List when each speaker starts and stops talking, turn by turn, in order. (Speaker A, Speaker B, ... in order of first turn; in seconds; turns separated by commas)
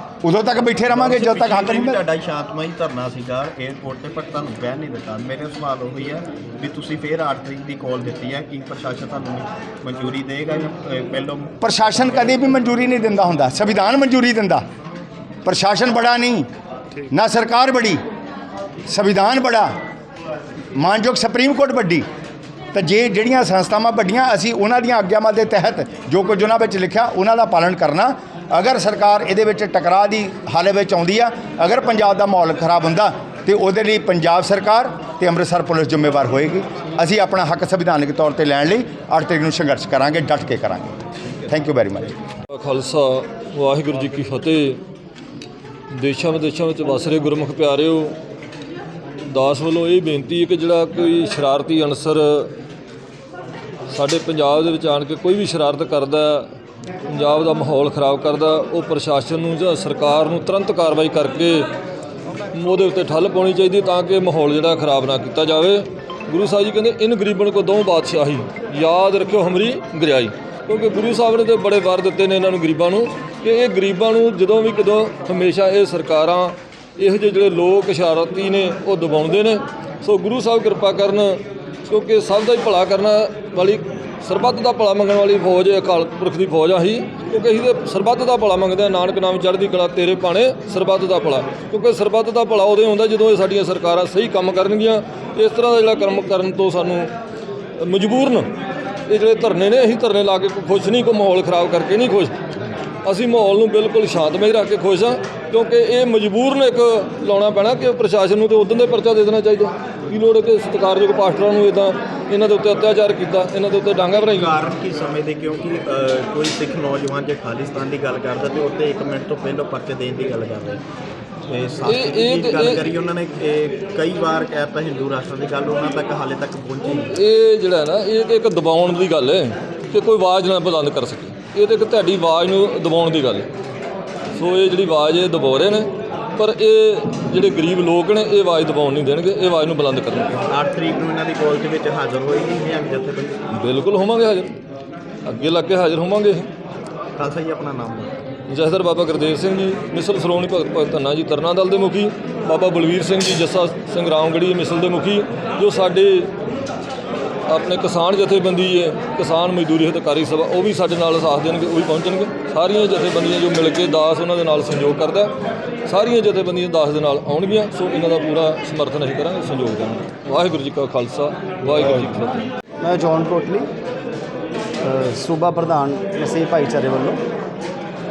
Speaker A: 0.2-2.0, Speaker B: 0.9-11.6, Speaker A: 11.6-14.6, Speaker A: 15.4-16.5, Speaker A: 17.1-18.0, Speaker A: 18.9-19.7, Speaker A: 20.7-22.1, Speaker A: 22.7-42.1, Speaker C: 42.5-44.8, Speaker C: 45.9-48.2, Speaker C: 49.3-52.5, Speaker C: 53.9-56.5, Speaker C: 57.1-61.7, Speaker C: 62.5-97.1, Speaker C: 97.8-98.5, Speaker C: 99.1-102.3, Speaker C: 103.0-114.6, Speaker B: 114.2-120.8, Speaker B: 121.5-127.2, Speaker C: 121.8-122.8, Speaker C: 127.1-133.5, Speaker C: 134.3-140.3, Speaker B: 140.3-143.4, Speaker C: 143.5-144.5, Speaker C: 145.2-146.5, Speaker B: 147.2-148.2, Speaker C: 148.5-156.3, Speaker C: 157.5-165.3, Speaker C: 165.8-172.5, Speaker D: 172.8-173.7, Speaker D: 174.8-177.2